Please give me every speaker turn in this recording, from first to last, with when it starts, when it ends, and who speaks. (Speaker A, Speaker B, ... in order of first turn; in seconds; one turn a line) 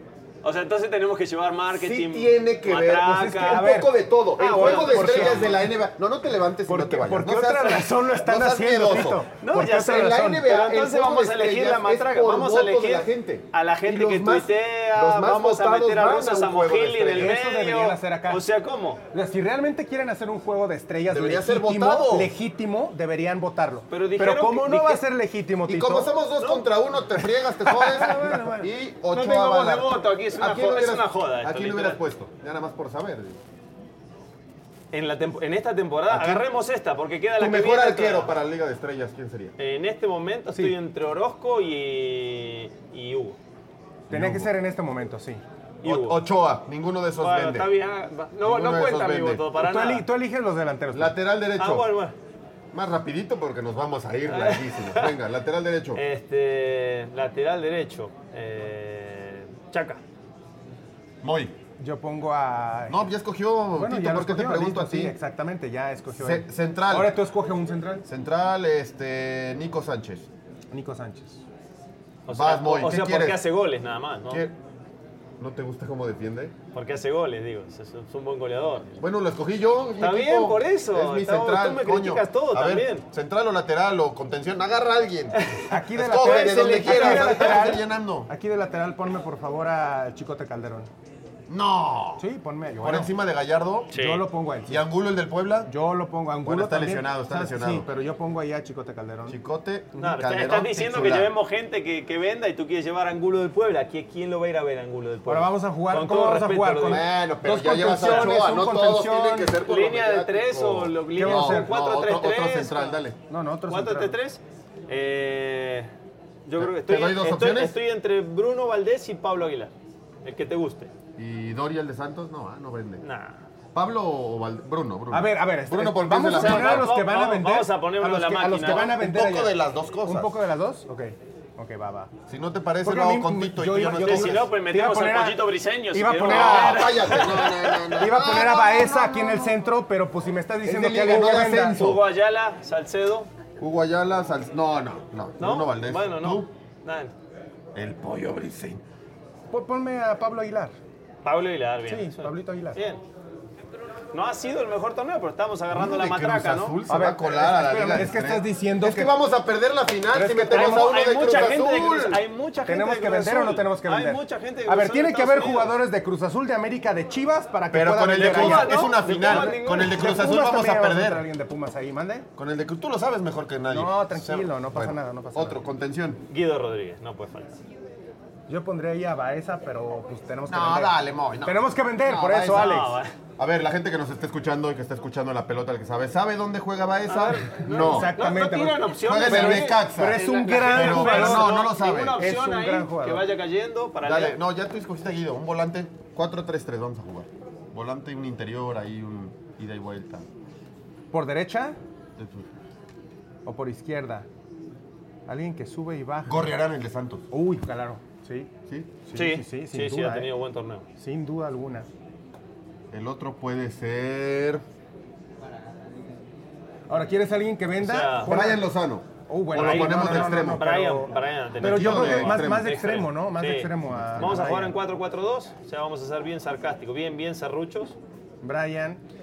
Speaker A: 0.4-3.6
Speaker B: 1.7-9.2
Speaker C: 3.1-5.5
Speaker A: 4.4-5.6
Speaker C: 6.7-10.4
Speaker A: 9.4-19.0
Speaker B: 9.8-17.4
Speaker C: 17.2-18.4
Speaker C: 19.1-26.1
Speaker B: 21.1-22.3
Speaker A: 23.9-25.0
Speaker B: 25.6-33.4
Speaker A: 26.4-26.7
Speaker C: 27.6-28.7
Speaker A: 27.9-28.4
Speaker A: 29.1-32.0
Speaker A: 34.9-38.3
Speaker B: 36.1-36.4
Speaker B: 37.4-39.5
Speaker A: 39.6-43.4
Speaker B: 44.1-44.5
Speaker C: 44.1-45.4
Speaker A: 45.8-46.2
Speaker B: 45.8-47.7
Speaker A: 47.2-50.0
Speaker B: 48.4-49.4
Speaker C: 49.5-51.1
Speaker B: 50.9-51.9
Speaker A: 51.6-52.1
Speaker B: 52.7-56.0
Speaker A: 54.3-55.2
Speaker A: 55.9-60.0
Speaker B: 61.2-61.5
Speaker C: 61.8-63.1
Speaker B: 62.9-65.2
Speaker C: 63.7-68.0
Speaker B: 66.2-67.2
Speaker B: 68.0-70.3
Speaker C: 70.7-71.4
Speaker A: 72.2-74.5
Speaker B: 72.3-73.4
Speaker B: 74.3-74.5
Speaker B: 75.4-76.5
Speaker A: 76.7-79.0
Speaker B: 79.0-88.3
Speaker A: 80.0-83.0
Speaker C: 85.7-90.9
Speaker A: 86.6-87.6
Speaker B: 91.5-92.2
Speaker C: 92.2-93.1
Speaker B: 92.8-93.9
Speaker A: 93.9-94.2
Speaker C: 93.9-94.8
Speaker B: 94.7-95.7
Speaker C: 95.7-99.4
Speaker B: 96.4-97.9
Speaker B: 99.3-101.3
Speaker A: 100.0-107.1
Speaker C: 105.3-109.6
Speaker B: 106.8-113.2
Speaker A: 108.0-108.4
Speaker A: 109.6-113.0
Speaker C: 111.2-111.7
Speaker C: 113.3-114.2
Speaker A: 113.7-115.9
Speaker A: 116.5-119.7
Speaker B: 116.6-117.7
Speaker A: 120.2-120.9
Speaker B: 121.2-123.0
Speaker A: 123.0-123.4
Speaker B: 123.7-126.9
Speaker C: 125.1-132.1
Speaker A: 126.3-128.9
Speaker B: 128.6-130.3
Speaker B: 132.3-134.5
Speaker C: 132.8-137.2
Speaker A: 134.0-138.2
Speaker B: 136.2-139.4
Speaker C: 138.0-141.8
Speaker B: 140.6-142.0
Speaker A: 141.4-143.3
Speaker B: 143.6-146.5
Speaker A: 145.4-147.1
Speaker B: 147.7-148.8
Speaker C: 149.5-150.7
Speaker A: 151.2-153.0
Speaker C: 151.9-152.8
Speaker A: 154.1-156.8
Speaker B: 155.7-162.2
Speaker C: 156.9-159.1
Speaker C: 160.1-160.9
Speaker A: 160.5-165.8
Speaker C: 162.7-172.3
Speaker B: 167.7-171.2
Speaker A: 168.2-170.2
Speaker B: 172.4-176.2
Speaker C: 173.7-175.6
Speaker A: 176.3-177.6
Speaker C: 178.5-183.0
Speaker B: 180.5-182.8
Speaker A: 182.5-183.1
Speaker B: 183.4-188.1
Speaker A: 187.1-194.4
Speaker C: 187.6-193.3
Speaker B: 189.0-192.2
Speaker B: 194.0-200.3
Speaker C: 201.1-201.8
Speaker B: 202.2-202.5
Speaker C: 203.4-204.3
Speaker C: 205.3-206.5
Speaker B: 206.3-207.2
Speaker C: 207.3-208.5
Speaker B: 208.7-209.0
Speaker C: 209.0-210.3
Speaker A: 209.1-210.8
Speaker C: 211.0-211.9
Speaker B: 212.9-214.6
Speaker C: 216.9-218.7
Speaker A: 217.8-218.3
Speaker B: 218.2-220.6
Speaker C: 219.3-224.8
Speaker A: 219.5-228.0
Speaker B: 221.6-222.7
Speaker B: 223.9-224.4
Speaker C: 228.4-229.0